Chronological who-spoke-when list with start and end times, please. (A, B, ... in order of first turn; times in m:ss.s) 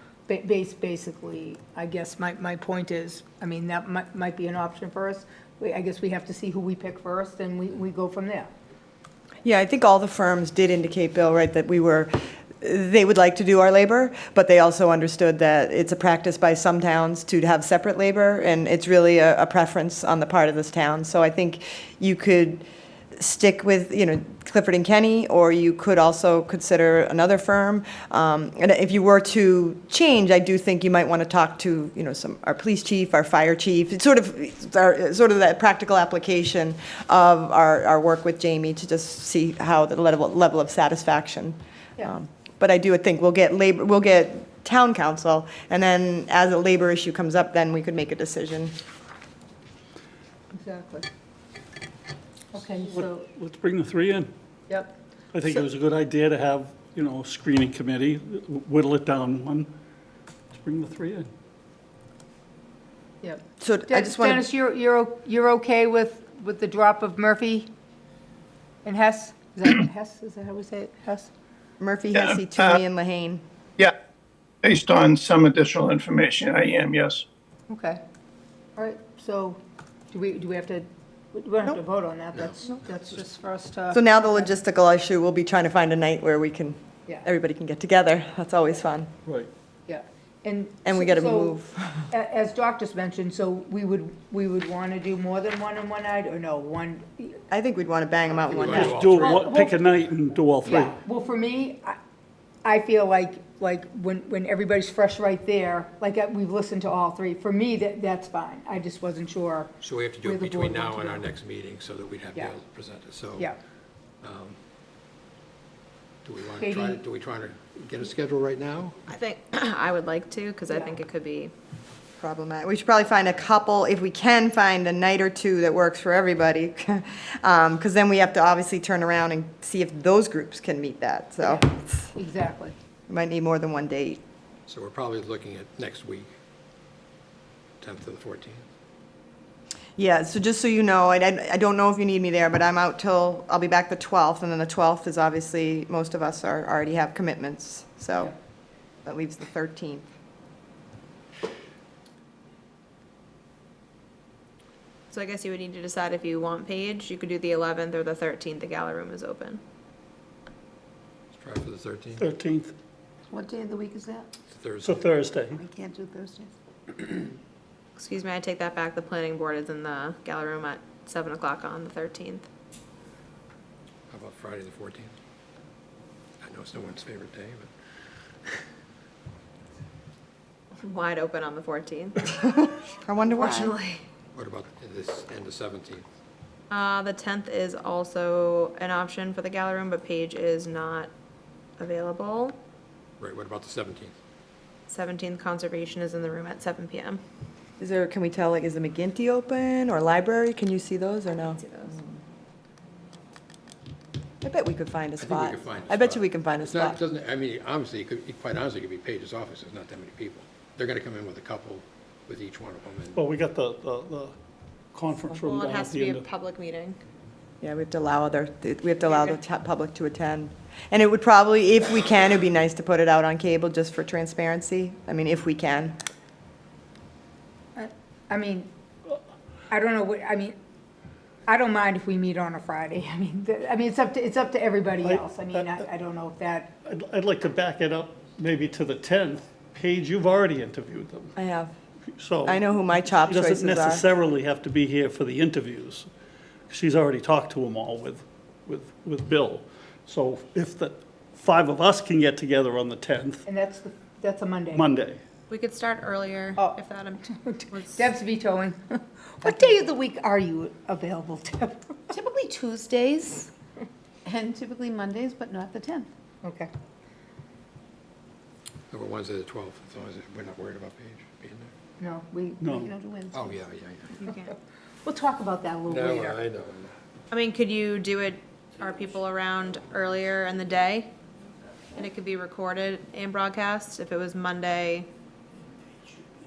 0:00.3-0:08.5 A
0:09.4-0:22.6 B
0:23.1-0:48.7 B
0:50.5-0:51.1 A
0:52.5-0:53.3 A
0:52.8-0:54.3 C
0:54.7-0:55.0 A
0:55.3-0:59.7 C
1:00.5-1:01.3 C
1:03.2-1:07.7 A
1:03.6-1:04.4 B
1:08.8-1:11.3 A
1:11.8-1:13.4 B
1:12.2-1:12.7 D
1:14.6-1:17.3 D
1:17.7-1:18.0 A
1:18.8-1:24.5 A
1:23.9-1:29.1 B
1:29.9-1:31.6 A
1:30.8-1:32.1 B
1:32.1-1:37.4 A
1:37.5-1:39.1 B
1:38.5-1:40.2 E
1:38.6-1:41.0 C
1:39.1-1:39.8 A
1:40.6-1:42.0 A
1:42.6-1:49.7 A
1:49.8-1:53.5 E
1:50.2-1:51.2 A
1:54.2-1:54.6 E
1:56.2-1:59.0 E
1:56.6-1:57.0 A
1:59.1-2:01.5 F
2:02.2-2:12.1 B
2:11.4-2:12.8 A
2:13.1-2:14.2 B
2:14.7-2:16.3 E
2:17.8-2:18.7 E
2:20.0-2:28.3 B
2:29.0-2:30.0 B
2:35.1-2:39.6 F
2:41.3-2:42.3 E
2:42.2-2:42.8 C
2:43.3-2:44.3 G
2:44.5-2:45.2 E
2:44.8-2:45.6 C
2:45.5-2:47.2 G
2:48.0-2:52.5 F
2:54.1-2:55.1 E
2:56.4-2:57.7 E
3:00.8-3:02.4 F
3:02.4-3:03.8 B
3:03.3-3:04.0 F
3:04.3-3:06.1 E
3:06.7-3:11.1 F
3:11.8-3:12.6 F
3:13.2-3:14.1 E
3:14.9-3:17.2 F
3:17.8-3:22.2 B
3:21.6-3:21.9 F
3:24.4-3:27.0 B
3:25.2-3:33.2 E
3:33.2-3:34.3 C
3:34.9-3:36.3 C
3:35.3-3:37.0 F
3:37.6-3:46.0 B
3:47.8-3:48.7 A
3:49.7-3:50.6 A
3:51.5-3:56.7 A
3:55.0-3:55.7 C
3:56.8-4:01.3 C
4:01.4-4:01.7 B
4:02.1-4:06.1 C
4:02.5-4:04.0 B
4:06.7-4:13.4 C
4:13.5-4:14.9 A
4:14.7-4:15.2 C
4:15.5-4:18.1 F
4:16.6-4:22.1 A
4:22.1-4:23.5 G
4:24.2-4:26.1 G
4:26.4-4:26.7 A
4:28.9-4:31.7 E
4:32.0-4:33.4 A
4:32.6-4:32.9 C
4:33.3-4:34.3 E
4:34.2-4:34.5 F
4:34.3-4:36.4 A
4:35.9-4:36.9 E
4:37.3-4:41.1 F
4:41.9-4:45.1 F